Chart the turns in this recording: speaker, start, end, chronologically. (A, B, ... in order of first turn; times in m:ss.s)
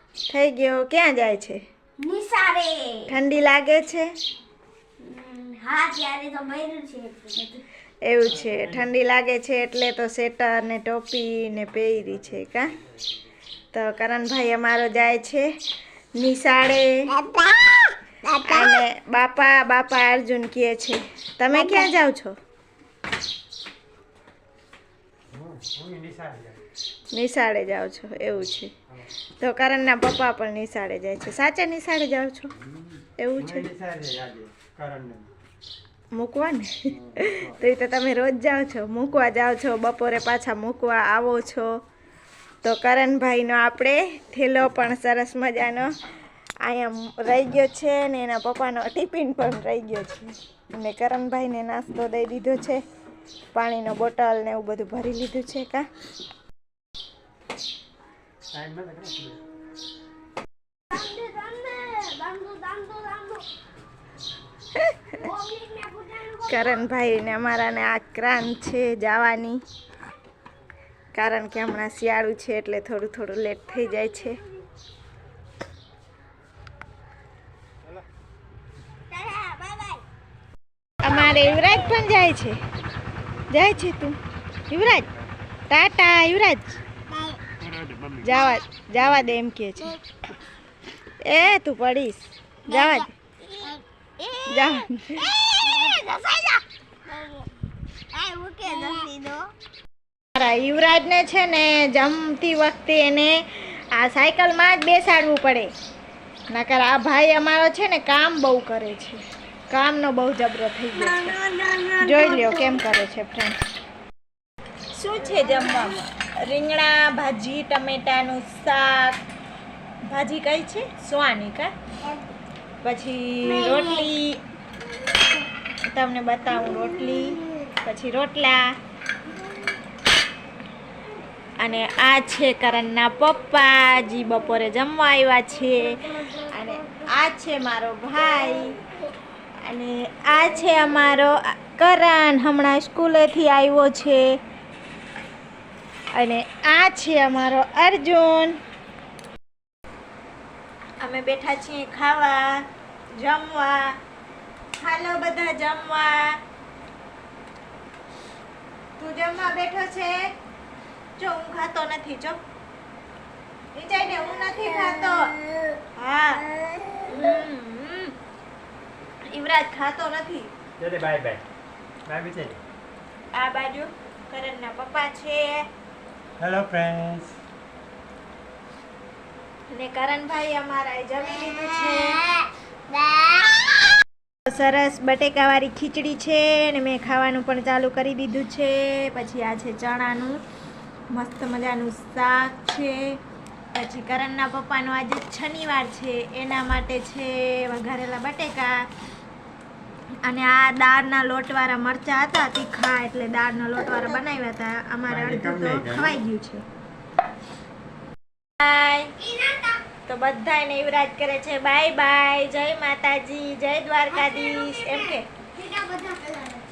0:00.3-0:01.6 A
0:02.0-0:03.1 B
0:03.1-0:04.1 A
0:05.0-0:07.6 B
0:08.0-0:12.8 A
0:08.3-0:08.9 C
0:13.7-0:15.4 A
0:16.2-0:16.9 A
0:17.1-0:18.8 B
0:18.4-0:22.3 A
0:21.5-0:21.9 B
0:25.3-0:26.6 C
0:27.1-0:28.7 A
0:29.4-0:32.5 A
0:32.7-0:35.3 C
0:33.2-0:33.6 A
0:36.1-0:41.7 A
0:36.9-0:37.6 C
0:42.6-0:45.9 A
0:46.6-0:52.8 A
0:53.5-0:55.8 A
0:58.5-0:59.4 C
1:00.9-1:03.4 B
1:04.8-1:05.2 A
1:05.1-1:06.8 B
1:06.4-1:09.6 A
1:11.1-1:14.4 A
1:19.1-1:20.0 B
1:21.0-1:22.6 A
1:21.0-1:21.9 B
1:23.5-1:24.2 A
1:24.7-1:25.1 A
1:25.7-1:26.8 A
1:27.1-1:27.4 B
1:28.2-1:30.0 A
1:31.2-1:33.1 A
1:32.7-1:37.5 B
1:34.5-1:35.2 A
1:38.1-1:39.5 B
1:40.3-1:45.7 A
1:46.5-1:49.2 A
1:49.7-1:51.4 A
1:51.0-1:52.8 B
1:52.0-1:53.6 A
1:54.9-1:59.2 A
1:55.3-1:56.0 B
2:00.1-2:01.7 A
2:02.8-2:04.4 A
2:03.4-2:04.1 B
2:05.9-2:08.7 A
2:06.7-2:07.5 B
2:11.6-2:18.8 A
2:16.1-2:17.0 B
2:19.6-2:24.4 A
2:26.1-2:28.6 A
2:31.0-2:32.6 A
2:33.2-2:34.0 A
2:34.8-2:36.4 A
2:39.0-2:40.2 A
2:41.2-2:42.4 A
2:43.7-2:45.3 A
2:44.0-2:45.8 B
2:46.0-2:46.4 A
2:46.4-2:47.4 B
2:47.0-2:48.1 A
2:49.2-2:50.5 A
2:50.8-2:51.4 C
2:52.0-2:52.6 C
2:53.3-2:55.6 A
2:56.4-2:57.4 C
2:59.7-3:02.2 A
3:01.9-3:03.7 B
3:04.5-3:10.4 A
3:11.1-3:13.2 A
3:13.7-3:18.7 A
3:20.2-3:26.6 A
3:25.1-3:26.2 C
3:28.6-3:29.1 A
3:29.2-3:29.8 B
3:30.1-3:35.3 A
3:34.1-3:36.6 B